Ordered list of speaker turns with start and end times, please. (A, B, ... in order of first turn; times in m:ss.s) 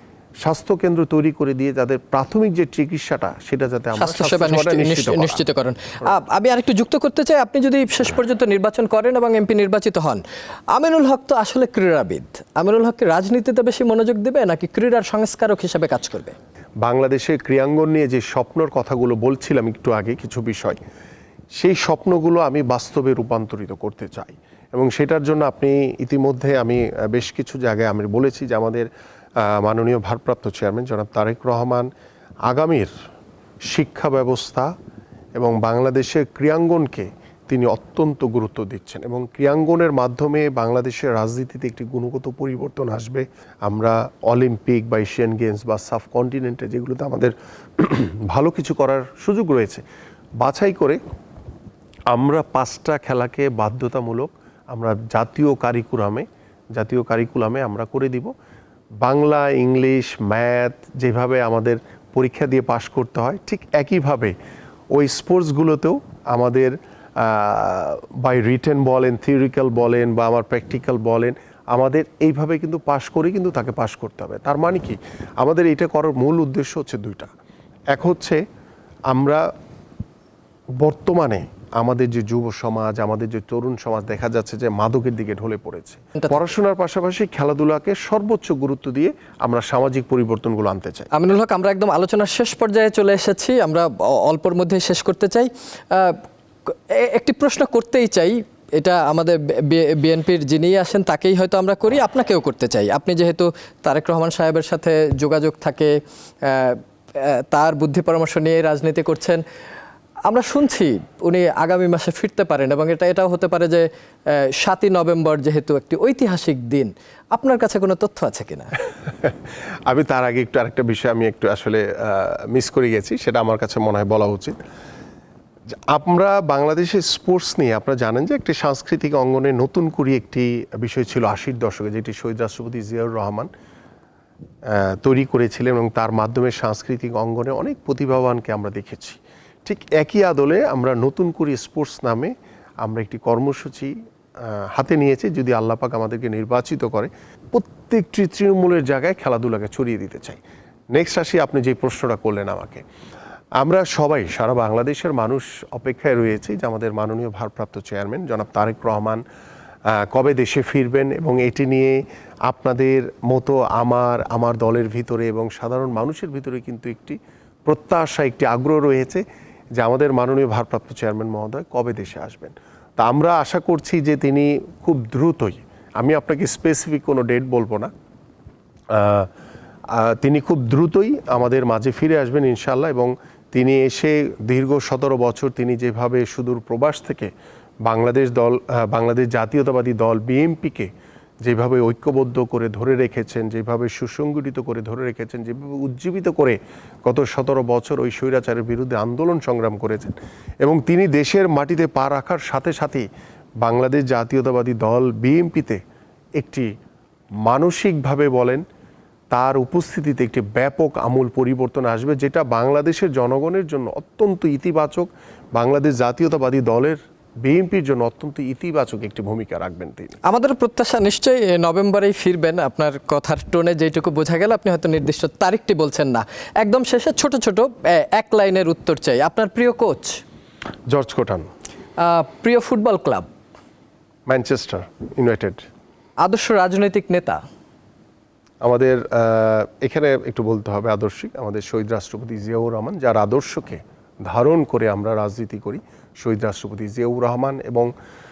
0:00.4-0:05.4 A
0:04.0-0:10.2 B
0:10.7-0:16.4 B
0:16.8-0:20.8 A
0:21.6-0:28.9 A
0:29.4-0:31.9 A
0:32.5-0:32.9 A
0:33.7-0:34.7 A
0:35.4-0:49.8 A
0:50.4-0:51.0 A
0:52.1-0:56.2 A
0:56.8-0:58.3 A
0:59.0-1:04.3 A
1:04.9-1:17.3 A
1:17.9-1:18.4 A
1:19.1-1:19.4 A
1:20.8-1:31.1 A
1:31.1-1:49.4 B
1:50.3-1:58.7 B
1:59.9-2:04.6 A
2:05.9-2:13.5 A
2:14.7-2:23.9 A
2:24.7-2:30.4 A
2:30.9-2:32.8 A
2:33.6-2:39.2 A
2:39.9-2:49.2 A
2:49.8-2:57.9 A
2:58.9-2:59.3 A
2:59.9-3:07.3 A
3:07.8-3:10.9 A
3:11.4-3:23.0 A
3:23.6-3:25.8 A
3:26.4-3:26.7 A
3:27.5-3:28.6 A
3:29.3-3:40.2 A
3:40.2-3:50.2 B
3:50.9-3:51.5 A
3:52.0-3:53.3 B
3:54.3-3:55.6 A
3:56.2-3:57.4 B
3:58.6-4:07.9 A